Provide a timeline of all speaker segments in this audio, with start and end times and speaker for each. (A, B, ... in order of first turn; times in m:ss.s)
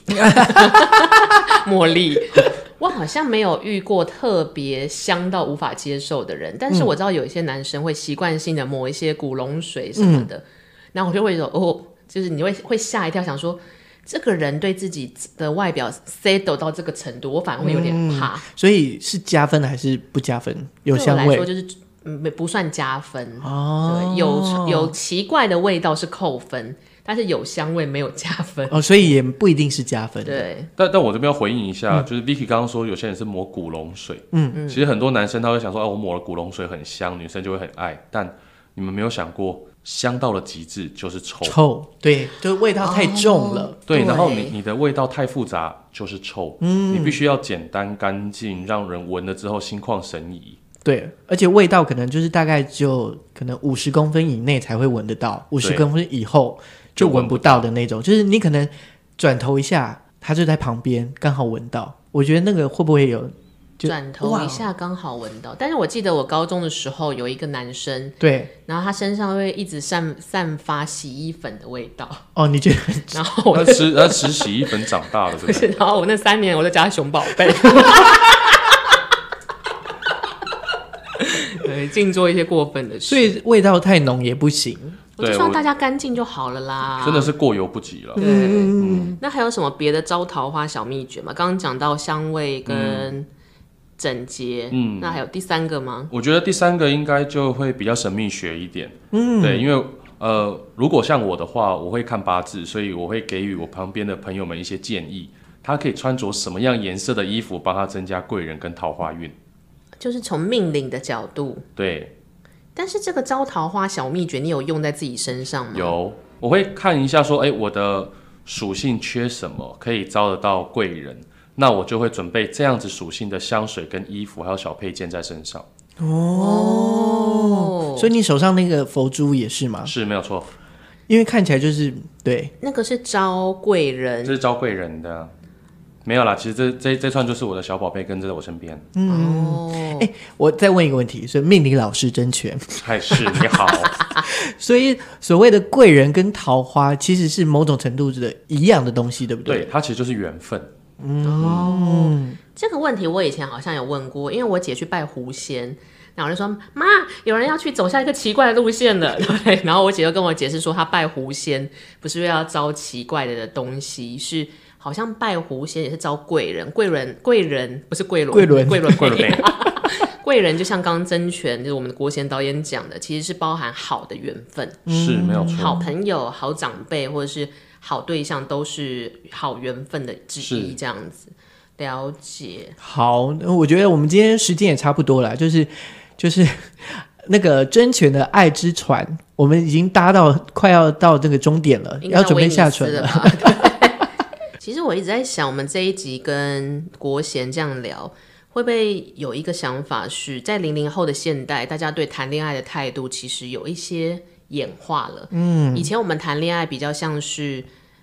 0:00.2-0:00.9 A
0:00.2-0:18.4 B
0:10.0-0:10.3 A
0:17.6-0:21.5 A
0:20.9-0:29.1 B
0:23.4-0:24.9 A
0:28.7-0:30.5 A
0:30.2-0:30.7 B
0:30.8-0:41.6 C
0:34.3-0:34.6 A
0:34.5-0:34.8 B
0:41.4-0:43.8 A
0:42.8-0:44.6 B
0:43.9-0:50.6 C
0:46.6-0:47.2 A
0:50.8-1:04.6 A
0:55.6-0:55.9 C
0:57.0-0:57.6 C
1:03.8-1:12.2 B
1:08.2-1:08.5 A
1:12.4-1:13.2 A
1:13.1-1:14.5 B
1:13.5-1:15.7 C
1:15.4-1:18.8 B
1:21.2-1:23.3 B
1:23.1-1:24.8 A
1:24.8-1:27.3 B
1:25.2-1:25.6 C
1:27.0-1:28.2 C
1:28.2-1:29.2 A
1:28.2-1:33.3 B
1:28.8-1:29.2 C
1:32.7-1:33.1 C
1:34.0-1:36.1 B
1:34.7-1:35.2 C
1:36.1-1:49.3 C
1:39.1-1:39.6 A
1:50.0-1:51.6 B
1:51.8-1:52.1 C
1:52.8-1:56.0 B
1:55.7-2:05.6 C
2:06.0-2:09.9 A
2:06.3-2:08.1 B
2:09.8-2:10.5 C
2:11.1-2:12.5 A
2:12.6-2:14.4 B
2:14.2-2:15.3 C
2:16.0-2:18.9 C
2:18.9-2:29.7 A
2:19.0-2:20.1 B
2:22.8-2:23.9 C
2:23.9-2:24.2 B
2:29.4-2:30.7 C
2:31.0-2:32.4 A
2:31.2-2:54.9 B
2:31.4-2:31.7 C
2:48.3-2:49.2 A
2:48.9-2:49.5 C
2:54.9-2:55.8 C
2:54.9-2:55.9 A
2:55.5-3:02.8 B
3:00.4-3:00.8 C
3:02.8-3:13.7 A
3:12.0-3:14.0 B
3:14.6-3:27.7 B
3:25.3-3:25.9 A